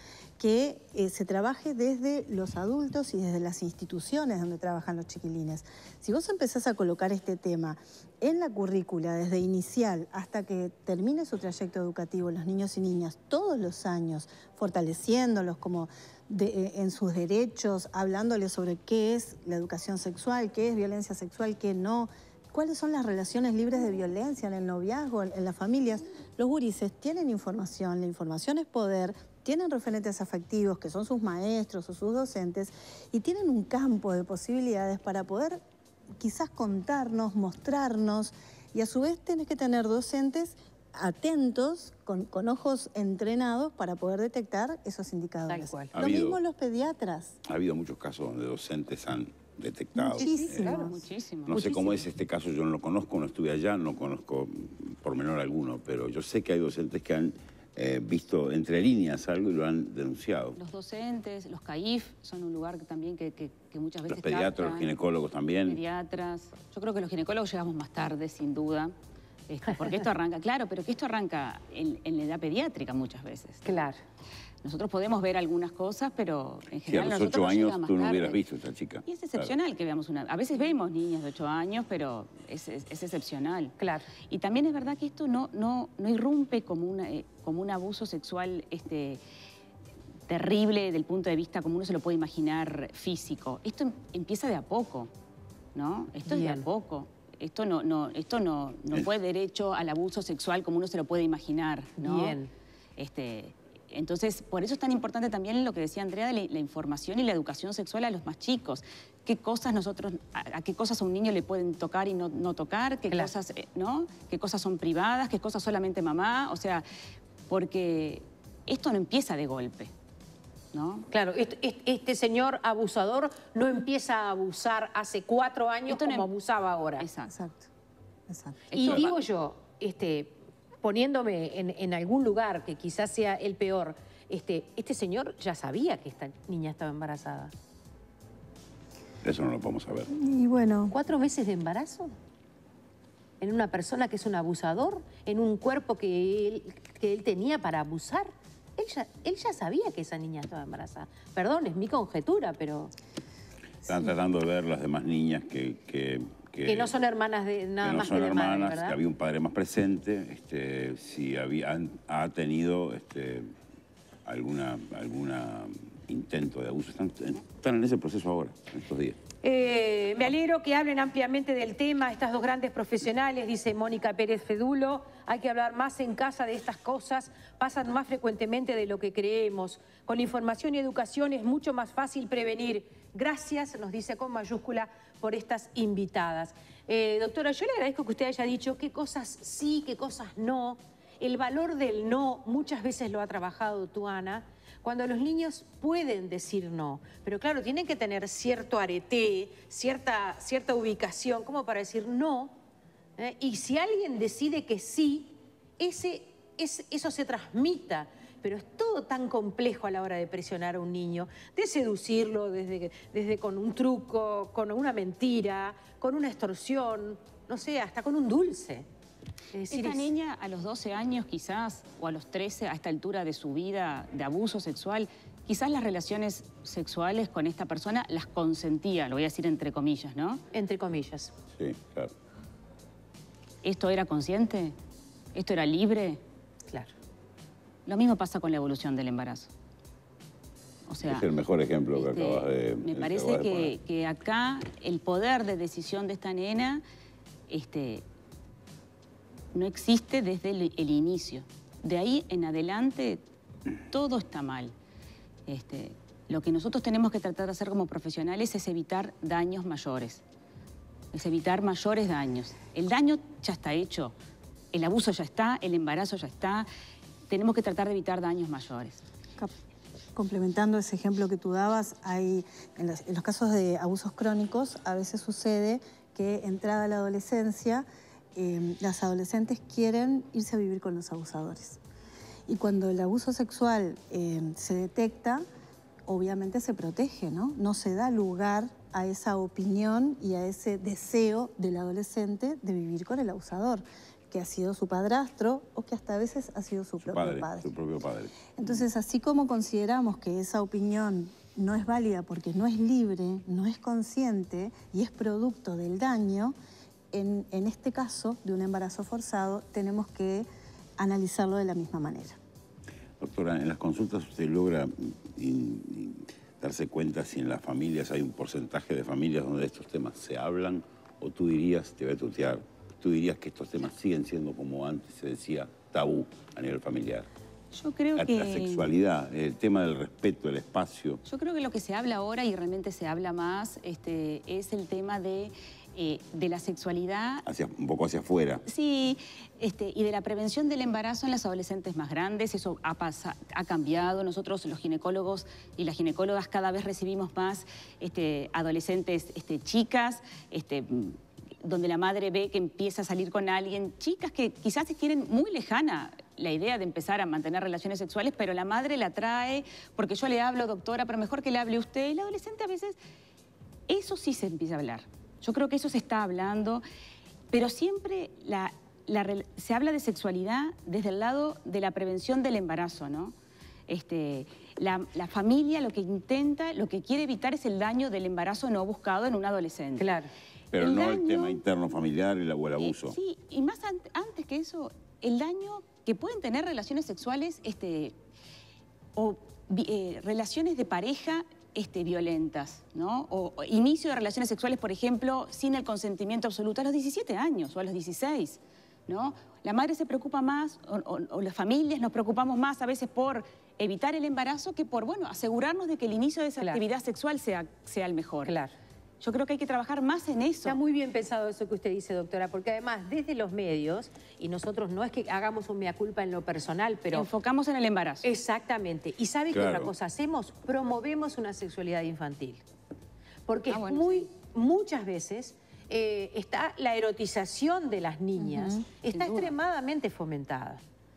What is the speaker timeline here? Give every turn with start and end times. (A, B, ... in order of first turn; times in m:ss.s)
0:00.4-0:35.6 A
0:36.2-0:47.4 A
0:45.5-0:45.9 B
0:45.9-0:46.4 C
0:47.4-0:50.8 C
0:50.0-0:51.0 A
0:50.1-0:51.0 B
0:50.7-0:51.6 D
0:51.5-1:00.6 C
0:51.5-0:52.0 B
1:00.6-1:04.9 D
1:04.1-1:05.8 C
1:05.6-1:08.9 D
1:09.5-1:13.6 D
1:13.6-1:14.0 B
1:14.6-1:18.4 D
1:16.9-1:19.5 C
1:19.0-1:23.7 D
1:23.8-1:24.1 B
1:24.3-1:29.2 D
1:30.3-1:35.1 D
1:35.7-1:42.4 D
1:36.3-1:36.6 B
1:42.0-1:42.5 B
1:43.0-1:56.8 D
1:57.5-1:59.9 D
2:00.7-2:01.1 D
2:01.1-2:07.0 B
2:05.9-2:06.3 D
2:07.0-2:07.3 D
2:07.3-2:07.7 A
2:08.3-2:08.9 A
2:08.7-2:09.2 D
2:08.7-2:17.5 B
2:19.2-2:20.1 C
2:20.1-2:21.0 A
2:20.9-2:22.1 B
2:23.4-2:32.9 B
2:33.8-2:36.9 C
2:36.6-2:39.0 B
2:37.8-2:43.5 C
2:44.2-2:49.2 C
2:49.4-3:22.5 B
3:23.2-3:38.8 B
3:39.5-3:40.1 B
3:39.6-3:50.4 D
3:50.5-3:51.3 B
3:51.6-3:52.1 C
3:53.6-3:54.7 D
3:55.3-3:56.2 D
3:57.8-3:59.5 D
4:00.9-4:01.3 D
4:01.0-4:03.7 C
4:01.9-4:06.8 D
4:07.5-4:08.0 D
4:09.5-4:13.2 D
4:13.9-4:14.7 D
4:15.5-4:20.2 D
4:21.1-4:24.1 D
4:24.7-4:26.7 D
4:27.3-4:29.0 D
4:30.1-4:41.8 A
4:42.5-4:45.4 A
4:46.0-4:57.7 A
4:57.0-4:58.4 C
4:58.5-5:06.5 A
5:07.1-5:10.5 A
5:11.0-5:12.4 A
5:13.2-5:27.3 C
5:27.7-5:28.9 D
5:28.2-5:31.2 C
5:31.2-5:37.4 D
5:37.4-5:38.6 C
5:38.6-6:03.0 D
6:03.9-6:06.8 D
6:07.5-6:13.3 D
6:13.9-6:20.1 D
6:20.0-6:20.3 B
6:20.7-6:23.1 C
6:20.8-6:21.6 D
6:22.8-6:28.1 D
6:29.2-6:48.5 D
6:48.4-6:48.7 B
6:49.2-6:50.8 D
6:50.6-6:57.3 B
6:57.1-6:58.3 D
6:58.2-7:02.6 B
6:59.5-6:59.9 C
7:03.5-7:10.8 B
7:03.7-7:04.2 D
7:08.4-7:08.7 A
7:09.0-7:09.5 D